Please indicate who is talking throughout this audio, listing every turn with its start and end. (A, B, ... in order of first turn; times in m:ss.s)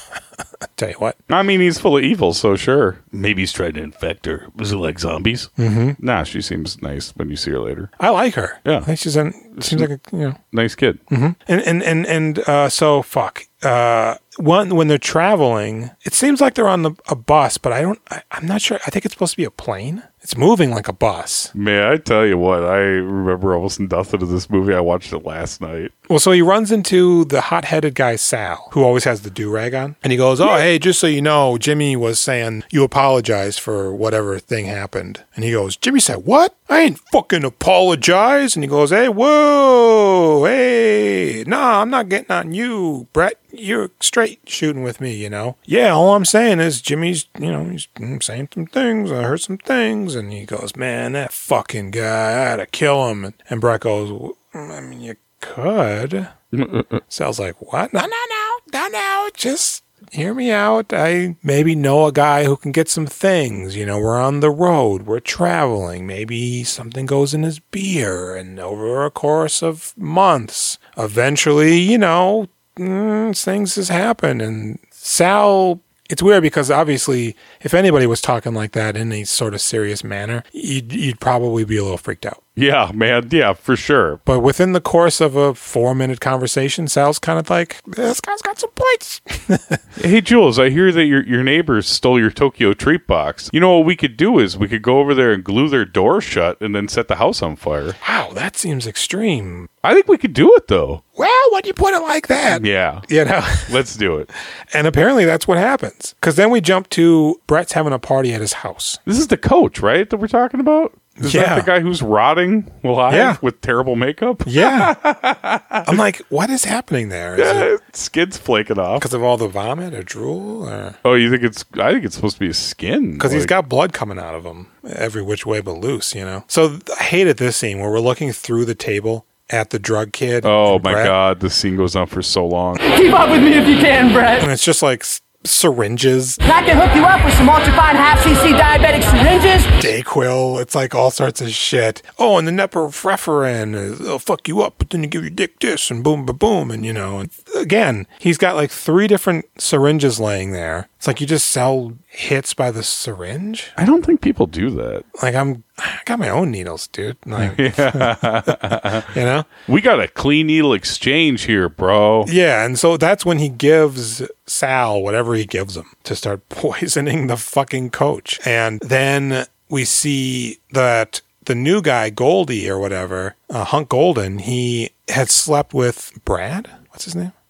0:00.8-0:01.2 A
0:01.3-0:07.9 B
0:05.6-0:06.0 A
0:08.0-0:10.4 A
0:09.6-0:09.9 B
0:10.5-0:11.0 B
0:11.1-0:21.5 A
0:21.6-0:25.9 B
0:26.1-0:56.3 A
0:56.5-0:57.0 B
0:57.1-1:22.4 A
1:22.6-1:24.2 B
1:24.3-1:29.8 A
1:30.0-1:38.0 B
1:38.0-1:39.7 A
1:39.8-1:41.0 B
1:41.2-1:43.8 A
1:42.5-1:43.1 B
1:43.6-1:44.3 B
1:44.7-1:49.0 A
1:49.1-1:56.0 B
1:51.2-1:51.7 A
1:53.1-1:53.4 A
1:54.5-1:55.0 A
1:55.9-1:57.7 A
1:57.4-1:59.0 B
1:59.0-2:01.0 A
2:01.0-2:03.5 B
2:03.2-2:11.2 A
2:10.4-2:12.8 B
2:12.9-2:14.5 C
2:14.4-2:16.4 A
2:16.4-2:19.9 C
2:19.8-2:33.8 A
2:33.8-2:35.0 B
2:35.2-2:39.5 A
2:37.4-2:39.1 B
2:39.7-2:42.3 B
2:42.2-2:57.3 A